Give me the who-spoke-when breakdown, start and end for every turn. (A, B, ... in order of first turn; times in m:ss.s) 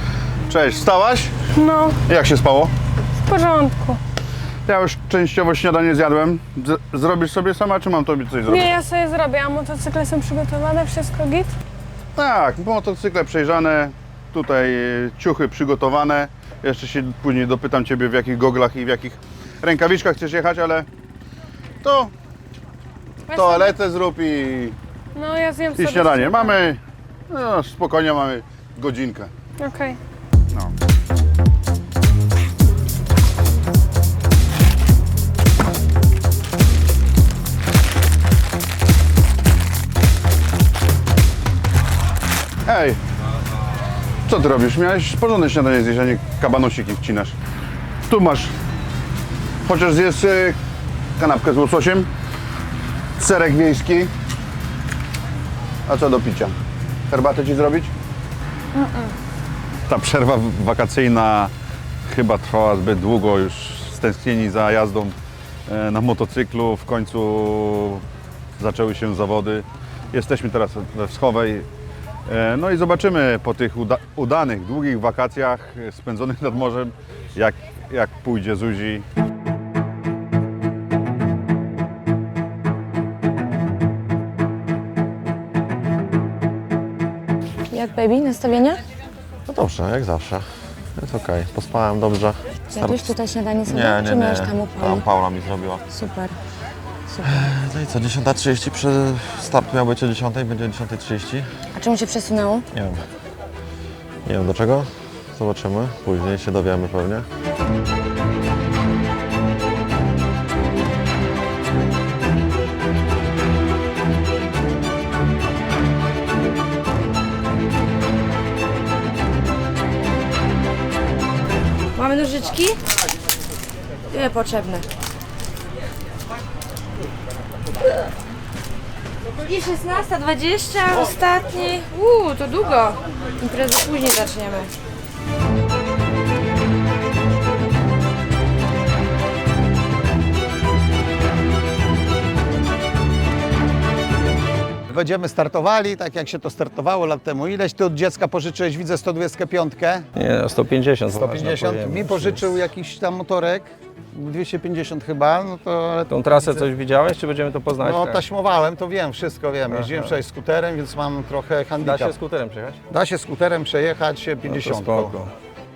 0:00.5-0:01.3 A
0:01.6-0:02.0 B
0:02.1-0:02.7 A
0:03.2-0:04.0 B
0:04.7-0:08.7 A
0:08.5-0:11.5 B
0:12.2-0:20.9 A
0:21.8-0:22.1 A
0:23.3-0:24.8 A
0:25.2-0:26.7 B
0:25.8-0:29.3 A
0:29.6-0:30.0 B
0:42.7-0:43.0 A
0:44.3-0:47.4 A
0:48.1-0:48.5 A
0:49.6-0:50.6 A
0:51.2-0:52.1 A
0:53.2-0:54.1 A
0:55.9-0:56.5 A
0:57.1-0:57.9 A
0:58.8-0:59.1 B
0:59.9-1:01.5 A
1:02.1-1:05.2 A
1:05.7-1:08.0 A
1:08.6-1:11.7 A
1:12.3-1:19.0 A
1:27.7-1:28.8 C
1:29.5-1:33.2 D
1:32.7-1:35.1 C
1:33.7-1:35.8 D
1:35.9-1:36.4 C
1:37.2-1:41.5 D
1:41.7-1:42.7 C
1:42.7-1:43.0 D
1:44.3-1:47.2 D
2:02.0-2:02.8 C
2:04.1-2:04.9 C
2:09.4-2:14.7 C
2:24.9-2:30.1 E
2:31.1-2:36.7 E
2:31.2-2:32.3 F
2:37.2-2:38.2 F
2:37.8-2:42.2 E
2:39.7-2:40.1 F
2:41.8-2:42.8 F
2:42.9-2:45.2 E